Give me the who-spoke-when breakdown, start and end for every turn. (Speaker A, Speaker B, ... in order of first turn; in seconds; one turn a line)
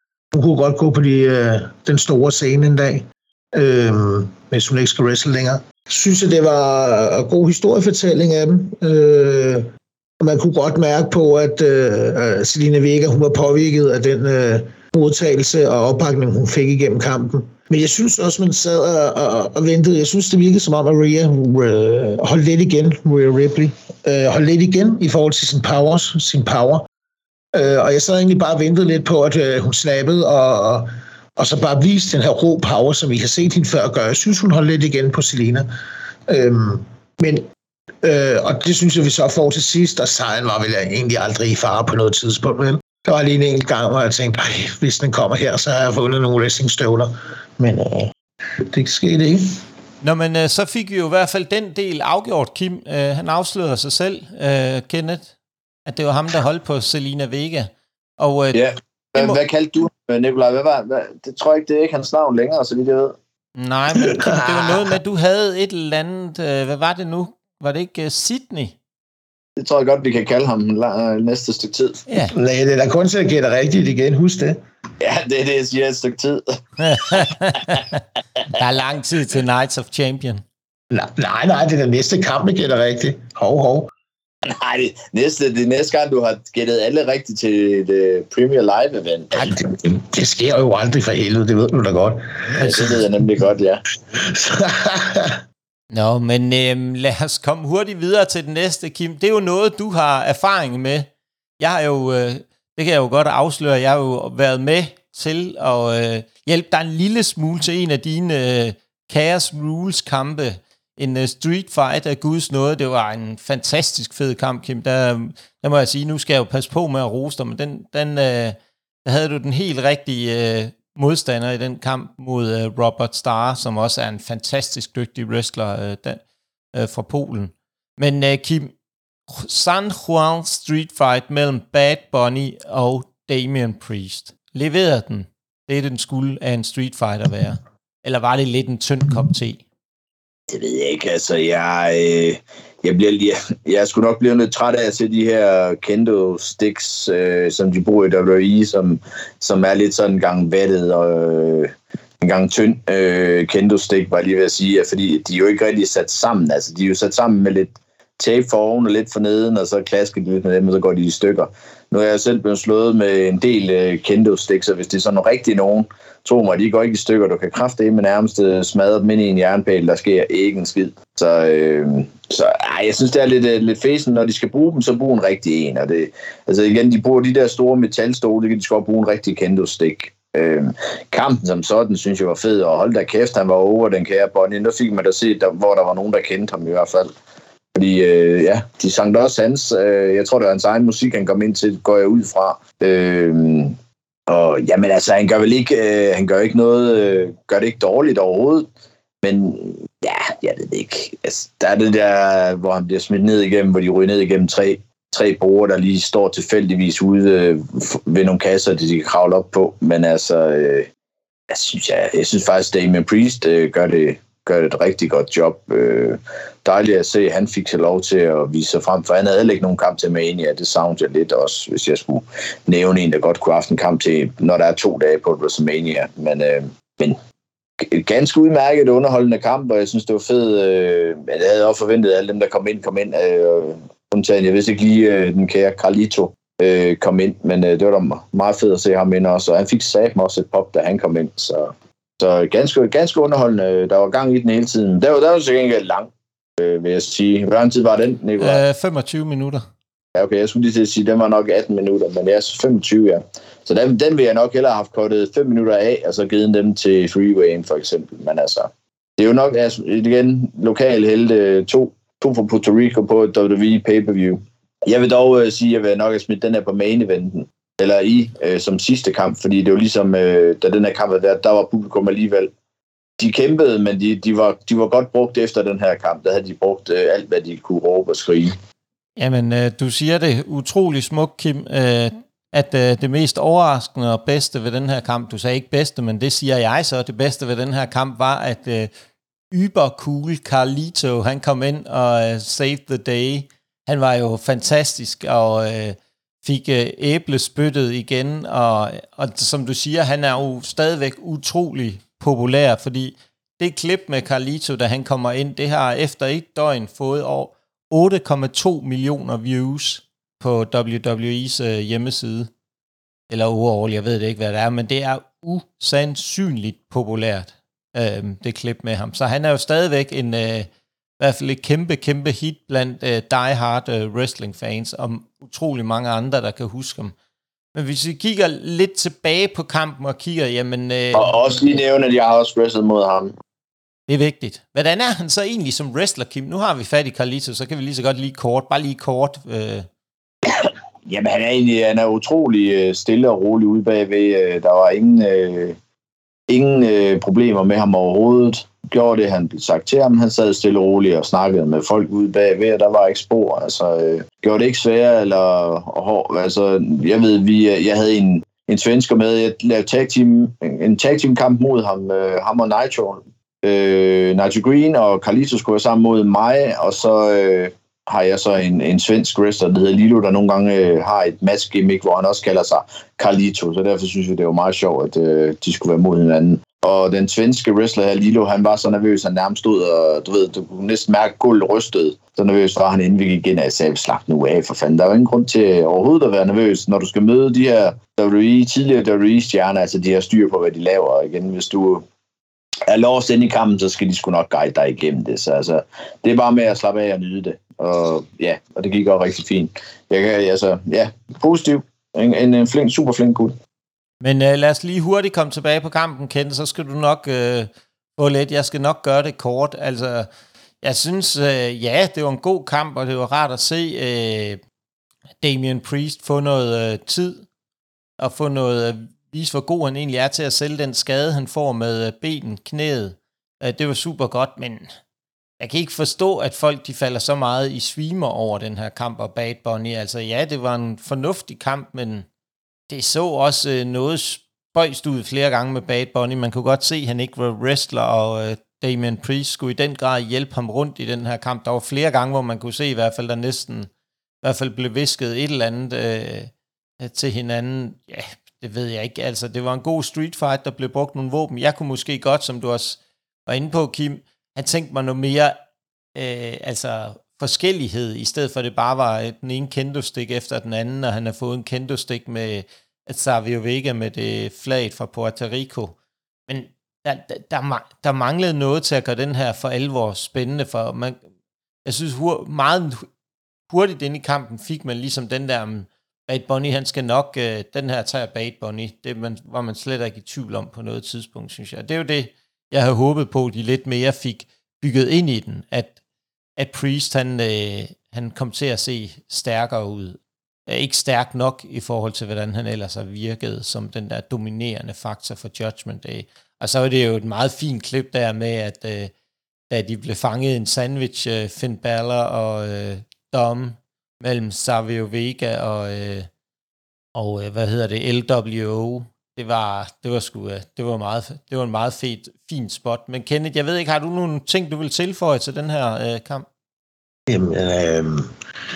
Speaker A: 0.3-9.7
Speaker A: 10.2-26.9
Speaker A: 27.5-35.7
Speaker A: 36.3-37.4
Speaker A: 38.0-48.1
Speaker A: 48.7-49.6
Speaker B: 50.0-55.3
Speaker B: 55.9-58.6
Speaker C: 58.5-63.1
Speaker B: 59.1-59.4
Speaker B: 63.5-68.7
Speaker A: 64.1-64.7
Speaker C: 69.6-72.0
Speaker B: 72.1-72.3
Speaker A: 72.3-74.6
Speaker C: 75.0-76.6
Speaker B: 76.8-78.0
Speaker B: 78.5-80.4
Speaker A: 80.9-83.9
Speaker C: 84.4-89.6
Speaker A: 89.3-93.0
Speaker C: 92.6-93.8
Speaker A: 94.1-95.4
Speaker B: 95.9-128.7
Speaker B: 129.3-139.6
Speaker C: 140.5-187.1
Speaker C: 187.7-193.8
Speaker C: 194.3-198.7
Speaker C: 199.2-210.9
Speaker C: 211.5-227.2
Speaker C: 227.8-248.6
Speaker B: 248.4-249.6
Speaker C: 250.2-272.5
Speaker C: 273.2-278.6
Speaker B: 279.2-288.9
Speaker B: 289.5-312.5
Speaker B: 313.3-327.1
Speaker B: 327.7-331.3
Speaker C: 331.1-333.3
Speaker B: 334.1-339.9
Speaker C: 340.4-345.8
Speaker C: 346.5-392.0
Speaker C: 392.9-403.6
Speaker B: 404.2-410.3
Speaker B: 410.8-414.6
Speaker B: 415.4-417.4
Speaker B: 418.2-424.9
Speaker B: 425.6-432.2
Speaker B: 432.9-443.9
Speaker B: 444.4-455.6
Speaker B: 456.1-465.9
Speaker B: 466.5-471.2
Speaker B: 471.8-473.1
Speaker B: 473.7-485.9
Speaker B: 486.6-499.1
Speaker B: 499.7-506.3
Speaker B: 507.1-516.5
Speaker A: 517.3-518.3